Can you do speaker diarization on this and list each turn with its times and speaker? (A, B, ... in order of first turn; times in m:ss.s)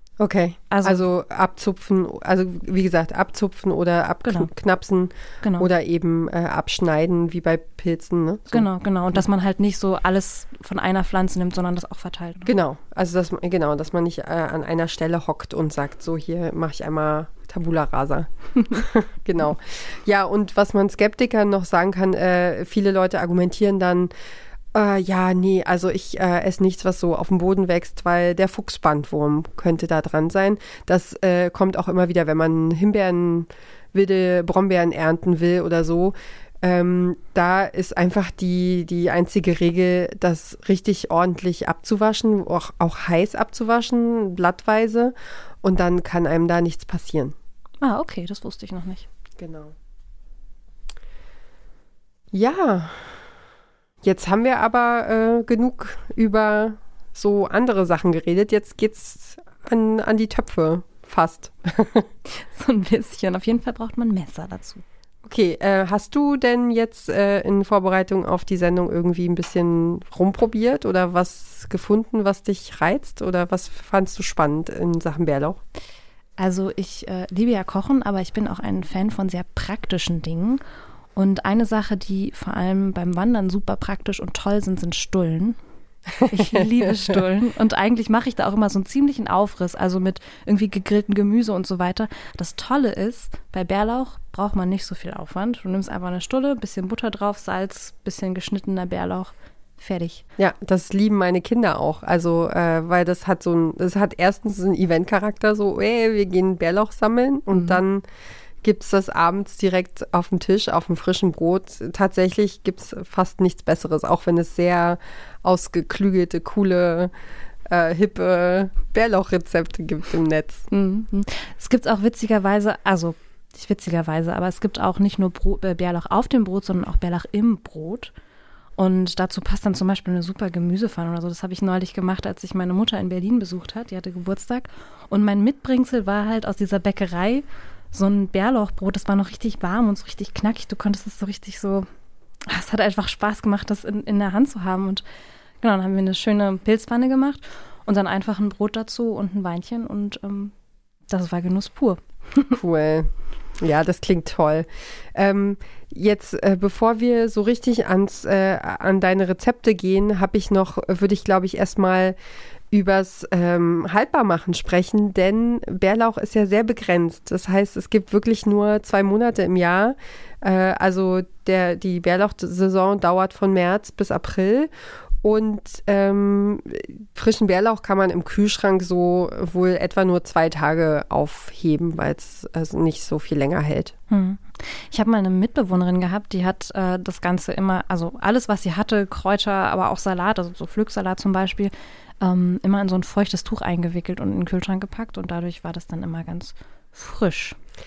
0:00.2-0:08.7 A
0:00.7-0:01.1 B
0:05.4-0:05.7 B
0:08.5-0:12.5 B
0:12.5-0:24.1 A
0:24.7-0:47.4 A
0:47.8-0:49.1 B
0:49.4-0:49.7 A
0:52.3-0:53.2 A
0:54.0-1:02.1 A
1:02.3-1:04.8 B
1:05.2-1:15.6 A
1:16.4-1:20.6 B
1:21.2-1:25.6 B
1:26.2-1:27.2 A
1:26.2-1:40.2 B
1:40.4-1:48.0 A
1:47.5-1:47.8 B
1:48.6-1:57.1 A
1:57.7-2:00.7 A
2:00.7-2:08.1 B
2:08.8-2:21.9 B
2:22.5-2:25.0 B
2:25.6-2:30.5 B
2:31.1-2:32.6 B
2:32.6-2:42.2 A
2:42.7-3:03.9 A
3:04.1-3:17.6 B